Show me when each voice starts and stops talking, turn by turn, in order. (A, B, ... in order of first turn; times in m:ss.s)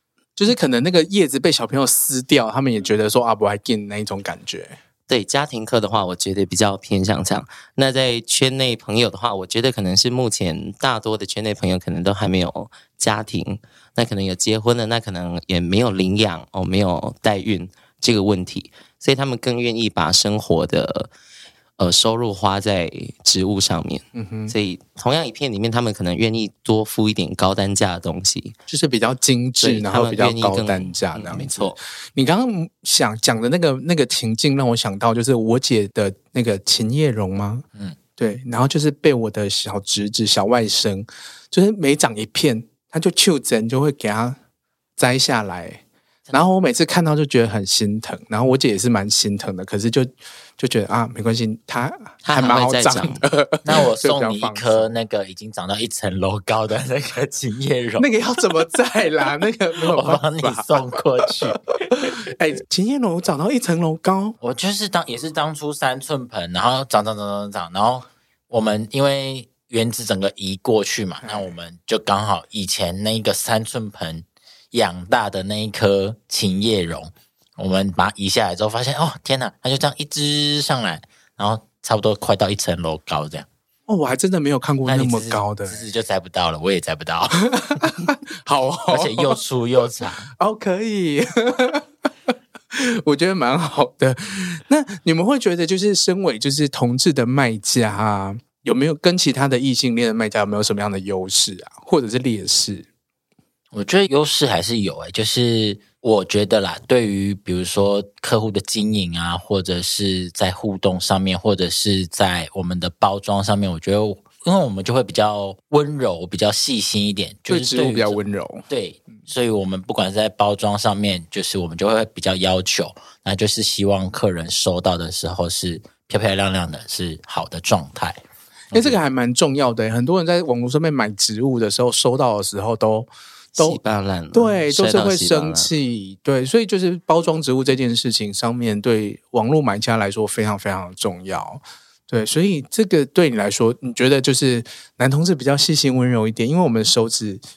0:00.4-0:04.8 A
0:05.1-0:21.1 B
0:21.8-0:28.5 B
0:24.1-0:24.5 A
0:28.7-0:37.6 A
0:29.6-0:31.8 B
0:38.2-0:44.4 A
0:45.0-0:54.9 A
0:52.2-0:53.2 B
0:53.6-0:58.1 C
0:58.0-1:04.4 A
0:59.8-1:01.6 C
1:04.4-1:23.5 C
1:11.2-1:11.5 A
1:23.9-1:25.8 A
1:24.8-1:27.6 C
1:27.4-1:29.4 A
1:28.9-1:30.3 C
1:30.4-1:31.8 A
1:32.7-1:42.9 A
1:43.7-1:58.2 C
1:57.5-1:58.7 A
1:58.7-2:08.2 C
2:08.7-2:09.0 C
2:08.7-2:13.8 A
2:13.6-2:15.7 B
2:14.3-2:27.4 A